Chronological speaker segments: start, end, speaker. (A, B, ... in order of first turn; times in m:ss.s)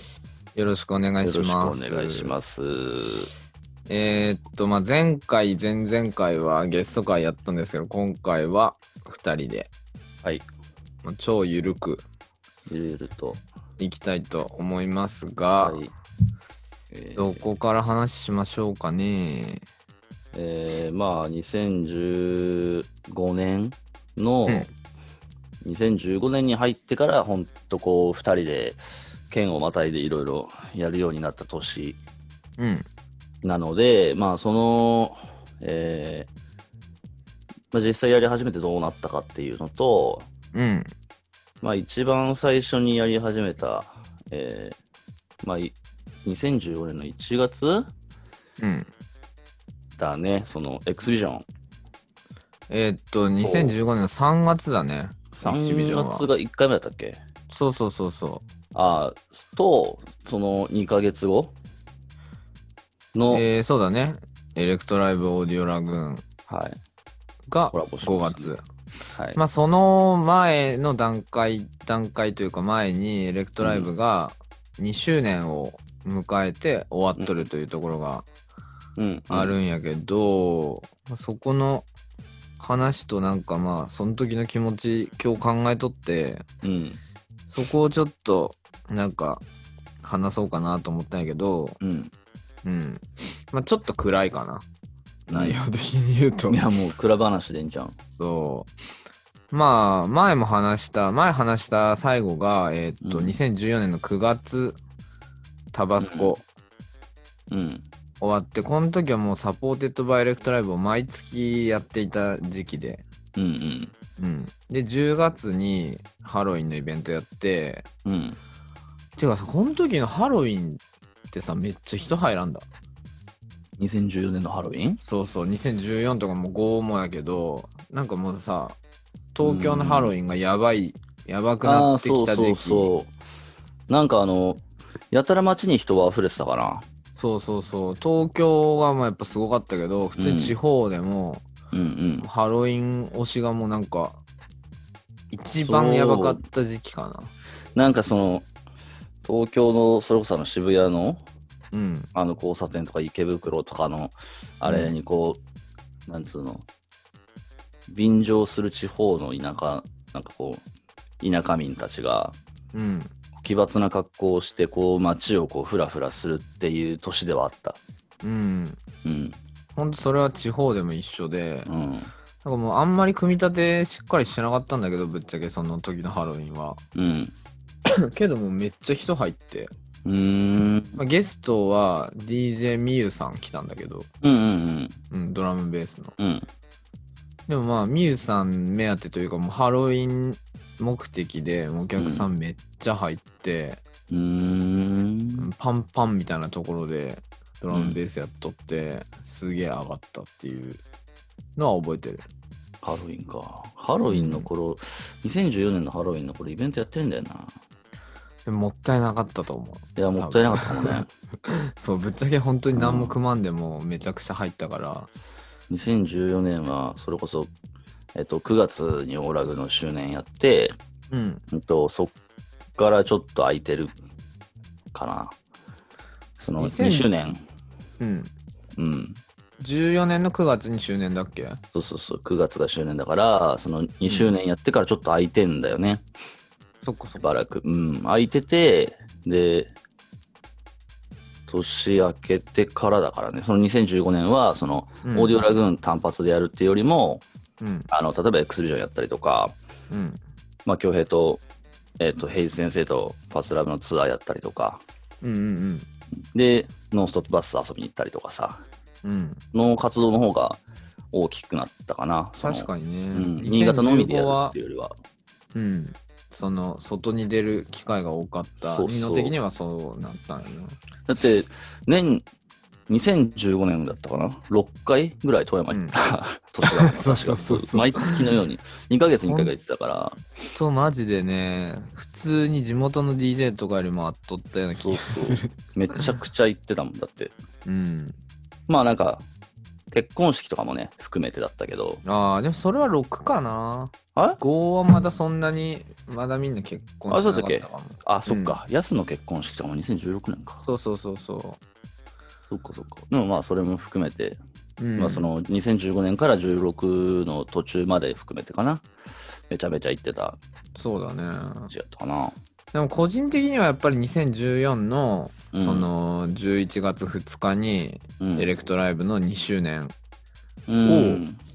0:00.6-0:02.3 A
0:01.2-0:03.3 B
0:03.9-0:09.7 A
0:11.0-0:12.0 A
0:12.7-0:13.4 B
0:13.8-0:15.9 A
0:15.6-0:15.9 B
0:16.9-0:17.5 B
0:17.2-0:19.6 A
0:20.3-0:24.7 B
0:25.6-0:32.0 B
0:32.6-0:32.8 A
0:33.4-0:36.3 B
0:37.7-0:40.3 B
0:40.5-0:40.9 A
0:41.6-0:44.8 B
0:45.4-0:47.9 B
0:48.6-0:48.9 A
0:50.0-0:51.4 B
0:52.7-0:56.3 A
0:53.4-0:53.8 B
0:55.3-0:57.2 B
0:57.5-0:58.4 A
0:58.7-1:01.5 B
1:03.1-1:03.4 B
1:03.3-1:06.2 A
1:06.5-1:06.8 B
1:07.5-1:08.6 A
1:07.7-1:08.5 B
1:09.1-1:09.4 B
1:09.4-1:18.3 A
1:13.6-1:13.9 B
1:17.2-1:17.5 B
1:19.0-1:19.6 B
1:19.3-1:21.9 A
1:22.6-1:26.4 A
1:26.6-1:27.0 B
1:27.5-1:29.4 A
1:30.0-1:31.8 A
1:31.8-1:32.1 B
1:32.6-1:34.6 A
1:35.3-1:35.6 B
1:35.3-1:36.6 A
1:36.5-1:38.0 B
1:38.1-1:38.7 A
1:39.5-1:44.8 A
1:43.0-1:43.4 B
1:45.7-1:46.4 A
1:46.0-1:46.4 B
1:47.5-1:47.8 B
1:48.2-1:53.0 A
1:53.4-1:53.9 B
1:54.2-1:57.9 A
1:58.0-1:58.4 B
1:59.2-2:02.7 A
2:03.8-2:05.0 B
2:05.0-2:08.8 A
2:09.3-2:12.9 A
2:09.4-2:10.2 B
2:11.6-2:13.1 B
2:13.9-2:16.8 B
2:17.2-2:21.4 A
2:20.2-2:20.6 B
2:21.7-2:22.3 B
2:22.2-2:24.2 A
2:25.3-2:27.3 A
2:25.6-2:26.4 B
2:27.8-2:28.5 B
2:29.2-2:31.2 B
2:31.7-2:32.1 A
2:32.1-2:35.4 B
2:34.6-2:34.9 A
2:36.1-2:36.6 B
2:37.9-2:40.6 B
2:41.2-2:42.4 B
2:42.7-2:43.1 A
2:43.4-2:47.8 B
2:48.2-2:48.8 A
2:49.0-2:49.4 B
2:49.8-2:51.7 A
2:51.7-2:52.1 B
2:52.4-2:56.8 A
2:57.0-2:57.3 B
2:57.9-2:59.7 A
3:00.0-3:01.0 B
3:01.0-3:04.1 A
3:04.2-3:05.0 B
3:05.1-3:06.2 A
3:06.2-3:06.5 B
3:07.5-3:13.8 A
3:12.0-3:12.3 B
3:14.1-3:15.5 B
3:15.4-3:20.8 A
3:21.6-3:22.2 A
3:22.8-3:27.5 B
3:24.1-3:24.5 A
3:28.5-3:35.1 A
3:30.0-3:31.1 B
3:32.7-3:33.2 B
3:35.7-3:37.5 B
3:38.2-3:40.8 B
3:41.1-3:41.4 A
3:41.5-3:42.1 B
3:42.8-3:44.0 B
3:44.9-3:45.4 B
3:46.4-3:47.4 B
3:46.6-3:47.1 A
3:48.0-3:48.3 A
3:48.8-3:49.2 B
3:49.6-3:51.6 A
3:51.7-3:56.0 B
3:56.8-3:57.2 A
3:57.2-3:59.7 B
4:01.5-4:07.2 B
4:05.0-4:05.4 A
4:07.6-4:07.9 A
4:07.9-4:09.6 B
4:09.9-4:10.2 A
4:10.7-4:11.4 B
4:12.0-4:14.8 B
4:15.2-4:15.9 A
4:16.3-4:18.6 B
4:19.0-4:19.4 A
4:19.5-4:20.6 B
4:21.1-4:25.0 B
4:22.4-4:24.6 A
4:25.5-4:30.8 A
4:28.6-4:29.4 B
4:31.1-4:32.2 B
4:32.9-4:40.2 B
4:35.7-4:36.0 A
4:36.6-4:38.3 A
4:39.3-4:39.5 A
4:40.5-4:46.1 A
4:44.8-4:47.3 B
4:47.7-4:48.2 A
4:48.7-4:49.2 B
4:49.9-4:52.0 B
4:52.0-4:58.6 A
4:57.1-5:00.6 B
5:00.6-5:01.6 A
5:02.5-5:04.4 B
5:04.8-5:05.3 A
5:05.0-5:08.9 B
5:09.5-5:10.4 B
5:10.8-5:11.7 A
5:11.7-5:12.4 B
5:12.7-5:19.9 A
5:15.5-5:15.9 B
5:18.2-5:18.5 B
5:20.7-5:21.4 B
5:20.8-5:21.2 A